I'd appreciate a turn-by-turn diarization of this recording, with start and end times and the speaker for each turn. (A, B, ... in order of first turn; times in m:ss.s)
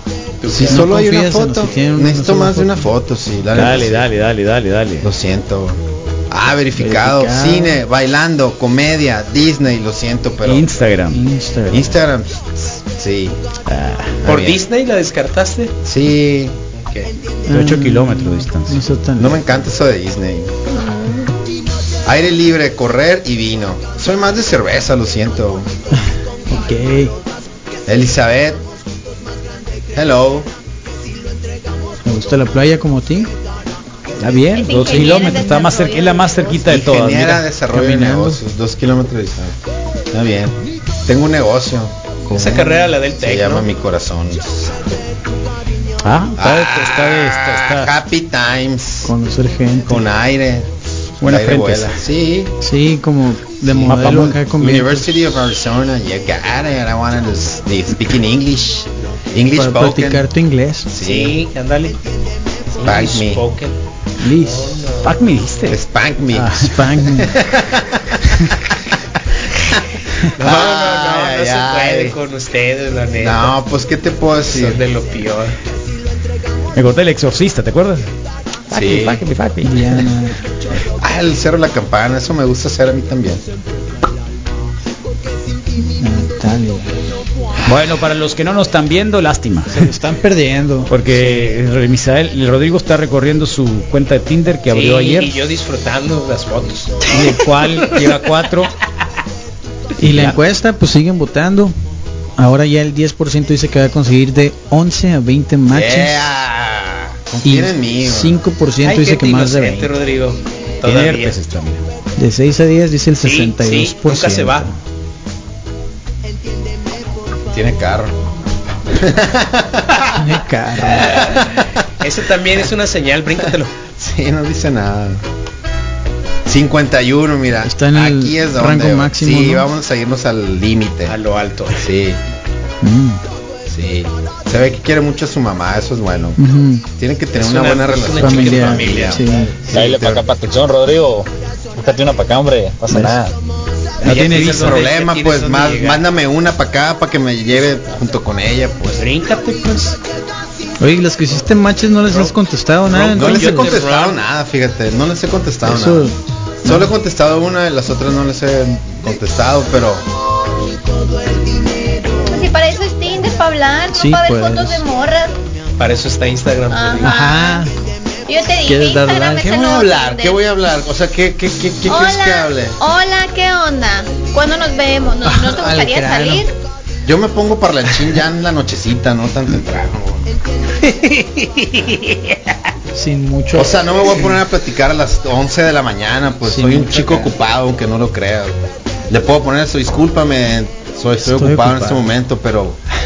0:00.4-0:00.9 A
0:00.5-0:04.1 B
0:00.7-0:02.9 C
0:03.5-0:05.1 D
0:05.0-0:05.8 B
0:06.3-0:10.7 B
0:06.8-0:07.8 C
0:10.4-0:11.2 D
0:11.1-0:12.0 C
0:11.7-0:13.4 B
0:13.7-0:14.2 D
0:14.2-0:14.6 B
0:14.2-0:15.7 A
0:15.8-0:16.6 B
0:16.7-0:17.1 A
0:17.5-0:19.4 C
0:17.5-0:18.8 D
0:19.2-0:20.5 B
0:20.7-0:21.3 E
0:22.0-0:25.7 B
0:26.5-0:27.1 C
0:27.9-0:28.6 B
0:29.9-0:30.5 B
0:32.0-0:33.3 C
0:34.2-0:35.2 C
0:34.4-0:37.4 D
0:34.5-0:36.6 E
0:36.7-0:39.6 B
0:37.7-0:38.4 C
0:40.1-0:45.0 B
0:42.3-0:43.6 A
0:46.0-0:47.9 D
0:46.4-0:49.1 B
0:49.0-0:50.0 C
0:49.9-0:52.5 B
0:51.2-0:52.0 D
0:52.6-0:55.1 C
0:53.7-1:00.3 B
0:53.8-0:54.4 D
0:59.5-1:00.9 C
1:00.9-1:01.4 B
1:01.0-1:02.0 A
1:02.7-1:05.5 A
1:02.8-1:03.4 B
1:04.2-1:04.8 C
1:05.0-1:05.8 D
1:05.7-1:08.4 B
1:06.3-1:07.4 C
1:10.4-1:12.2 B
1:10.4-1:13.6 A
1:13.2-1:14.8 B
1:14.5-1:15.6 A
1:16.8-1:18.1 D
1:18.7-1:20.0 D
1:18.7-1:19.2 B
1:19.6-1:20.4 C
1:21.0-1:23.4 B
1:26.0-1:26.9 C
1:27.6-1:29.9 D
1:29.7-1:31.0 C
1:30.9-1:35.4 D
1:34.7-1:38.1 A
1:37.1-1:38.7 D
1:40.0-1:41.7 C
1:40.0-1:40.4 D
1:42.4-1:46.3 C
1:45.7-1:48.4 B
1:47.4-1:49.9 C
1:48.8-1:51.4 A
1:50.8-1:51.8 D
1:52.2-1:54.8 C
1:53.2-1:54.7 A
1:57.5-1:58.2 B
1:58.9-2:00.0 B
2:00.2-2:01.3 C
2:00.9-2:01.7 B
2:02.0-2:03.8 A
2:03.9-2:05.2 B
2:06.5-2:11.2 B
2:07.6-2:09.7 C
2:11.1-2:11.9 A
2:11.7-2:12.2 B
2:12.8-2:13.2 C
2:13.7-2:16.4 B
2:16.4-2:16.8 C
2:17.0-2:20.3 B
2:17.4-2:19.2 A
2:18.2-2:19.6 C
2:19.7-2:23.4 F
2:22.9-2:23.2 C
2:24.0-2:24.9 D
2:24.0-2:26.1 A
2:24.4-2:29.1 B
2:28.9-2:30.0 A
2:30.8-2:33.7 C
2:32.0-2:32.4 A
2:32.9-2:34.2 A
2:33.1-2:36.1 B
2:35.6-2:36.9 C
2:36.6-2:40.0 B
2:42.3-2:45.4 E
2:43.9-2:44.8 C
2:45.8-2:47.1 A
2:46.7-2:47.7 E
2:47.0-2:47.7 C
2:48.3-2:50.4 E
2:48.6-2:49.5 C
2:49.3-2:52.8 B
2:51.9-2:56.5 E
2:55.2-2:56.4 C
2:57.0-3:00.3 B
3:00.8-3:02.5 A
3:02.9-3:04.3 C
3:03.5-3:08.6 B
3:06.5-3:07.3 C
3:09.1-3:12.8 B
3:11.2-3:12.1 C